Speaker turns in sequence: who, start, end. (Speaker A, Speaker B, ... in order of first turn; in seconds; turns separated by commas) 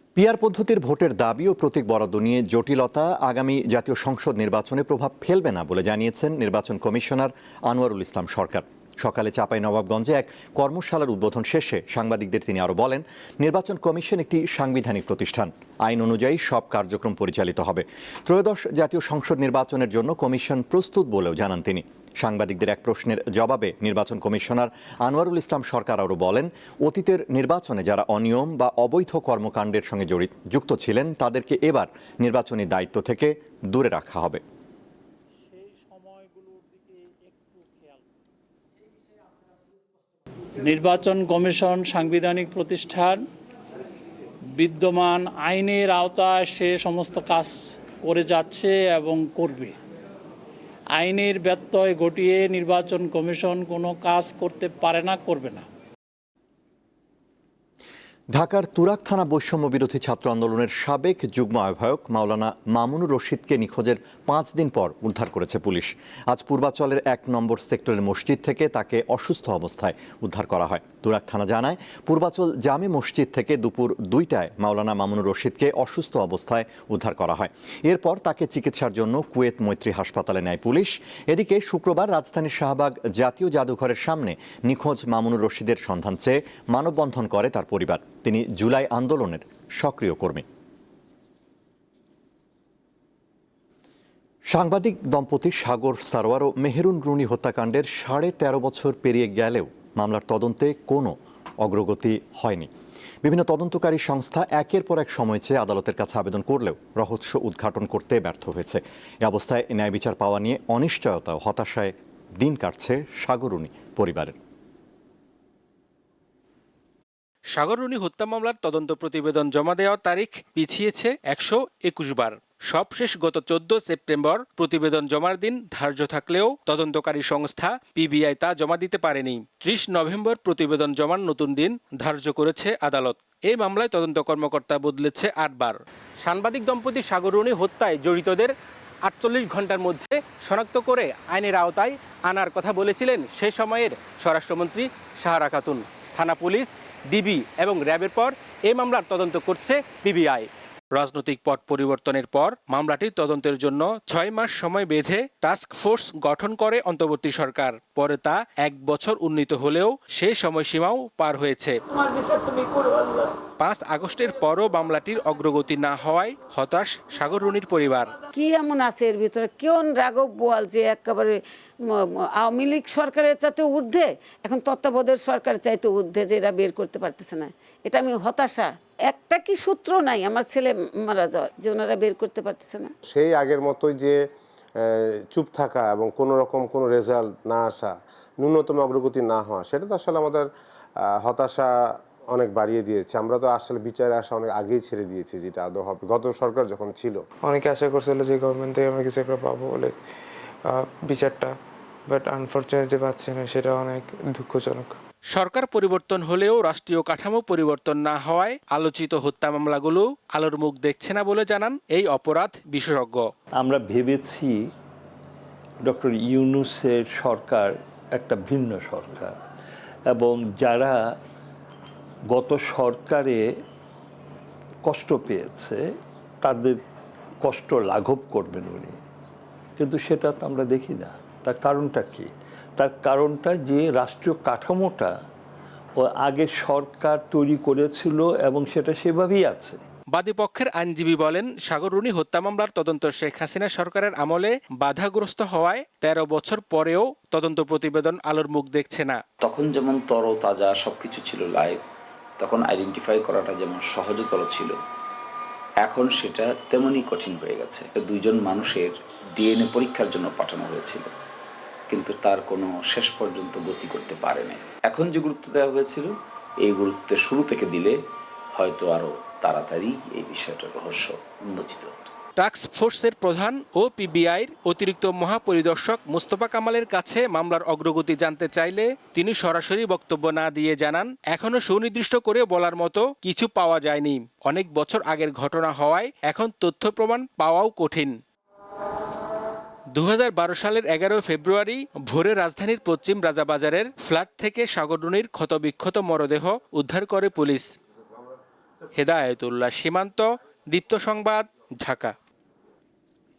Speaker A: 0.2-34.4, Speaker B: 35.5-38.0, Speaker B: 40.6-43.2, Speaker B: 44.6-49.8, Speaker B: 51.0-55.7, Speaker A: 58.3-90.5, Speaker A: 94.5-102.7, Speaker A: 103.2-114.4, Speaker C: 117.5-138.5, Speaker C: 139.1-161.8, Speaker C: 163.6-168.1, Speaker D: 168.3-182.9, Speaker E: 183.1-184.2, Speaker E: 184.8-190.5, Speaker E: 191.1-191.7, Speaker E: 192.3-197.2, Speaker F: 197.4-200.0, Speaker F: 200.7-201.6, Speaker F: 202.1-204.9, Speaker C: 205.3-213.2, Speaker G: 213.6-214.7, Speaker G: 215.8-219.4, Speaker G: 220.1-221.2, Speaker G: 222.3-223.6, Speaker G: 224.8-225.8, Speaker G: 226.4-226.8, Speaker G: 227.4-229.0, Speaker G: 229.8-235.2, Speaker G: 236.0-239.8, Speaker C: 240.1-249.2, Speaker H: 249.4-251.8, Speaker H: 252.4-254.8, Speaker H: 255.8-261.1, Speaker H: 261.9-268.0, Speaker H: 268.5-272.1, Speaker C: 272.4-288.1, Speaker C: 289.9-297.7, Speaker C: 298.9-302.1